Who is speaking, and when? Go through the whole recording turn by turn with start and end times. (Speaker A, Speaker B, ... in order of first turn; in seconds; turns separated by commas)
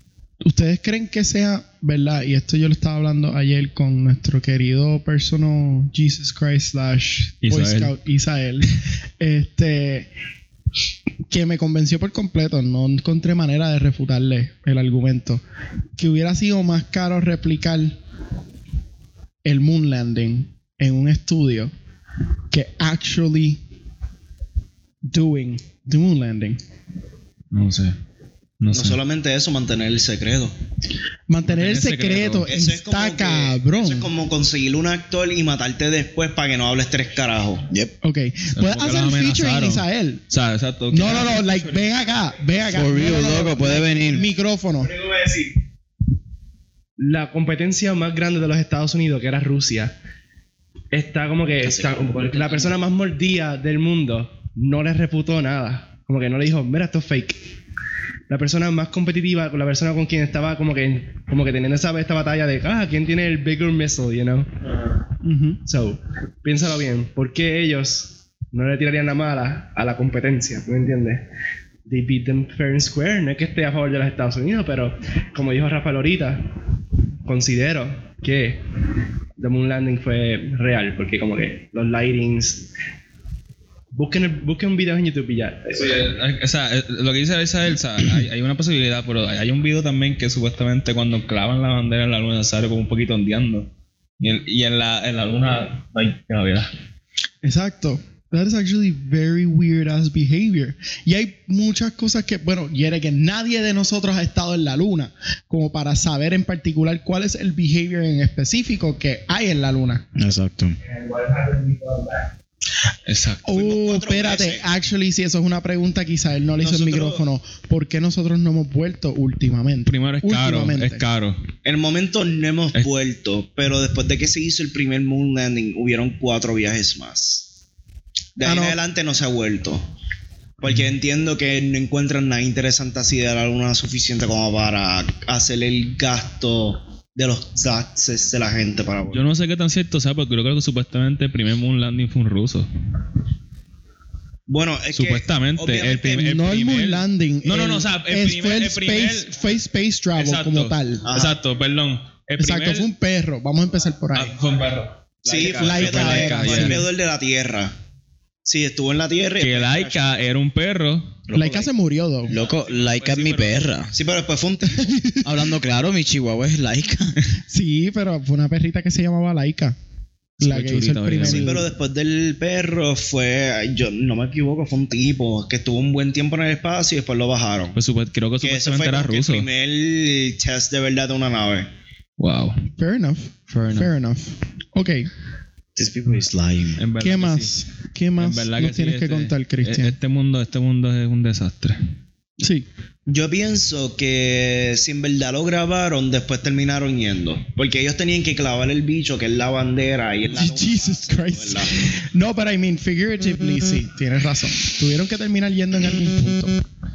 Speaker A: 0.4-10.1, Speaker B: 7.4-7.9, Speaker A: 11.3-15.4, Speaker A: 16.0-18.0, Speaker A: 19.4-21.7, Speaker A: 22.5-23.6, Speaker A: 25.1-26.6, Speaker B: 27.5-28.0, Speaker B: 28.6-29.0, Speaker C: 28.7-30.5, Speaker A: 31.3-34.1, Speaker B: 31.4-32.5, Speaker C: 32.5-37.7, Speaker A: 38.0-40.2, Speaker B: 38.5-41.9, Speaker A: 40.9-45.0, Speaker D: 42.7-44.3, Speaker E: 45.1-45.5, Speaker E: 47.0-50.0, Speaker E: 50.9-57.4, Speaker D: 51.6-52.8, Speaker E: 58.3-64.5, Speaker A: 65.2-65.6, Speaker E: 65.7-71.2, Speaker E: 71.9-76.4, Speaker E: 77.2-78.6, Speaker E: 79.4-82.7, Speaker E: 83.9-86.1, Speaker B: 85.7-96.7, Speaker A: 97.4-110.0, Speaker D: 110.2-110.8, Speaker E: 110.9-112.2, Speaker B: 113.1-113.5, Speaker A: 113.5-121.0, Speaker C: 113.5-114.7, Speaker C: 116.6-117.2, Speaker B: 119.8-121.4, Speaker C: 121.7-127.5, Speaker C: 128.4-129.8, Speaker A: 128.4-128.8, Speaker C: 130.6-139.2, Speaker B: 139.1-142.7, Speaker C: 144.5-146.3, Speaker B: 144.9-149.4, Speaker A: 146.1-151.1, Speaker B: 150.2-152.9, Speaker C: 151.1-151.4, Speaker A: 152.4-154.3, Speaker B: 154.1-156.8, Speaker C: 155.3-157.7, Speaker A: 155.4-156.9, Speaker C: 158.4-160.1, Speaker B: 159.4-161.2, Speaker D: 161.3-161.7, Speaker A: 161.3-162.3, Speaker B: 162.3-163.7, Speaker D: 162.3-163.9, Speaker C: 163.9-164.9, Speaker A: 164.7-165.4, Speaker D: 165.2-167.2, Speaker A: 167.5-169.8, Speaker A: 170.4-171.6, Speaker B: 170.4-171.6, Speaker C: 171.2-177.8, Speaker B: 177.8-179.5, Speaker C: 178.4-181.7, Speaker B: 182.2-182.6, Speaker A: 182.8-185.1, Speaker B: 183.5-183.9, Speaker D: 185.8-186.8, Speaker B: 186.8-187.5, Speaker A: 187.0-189.9, Speaker B: 188.2-191.8, Speaker A: 192.4-192.7, Speaker C: 193.1-201.7, Speaker A: 200.3-206.6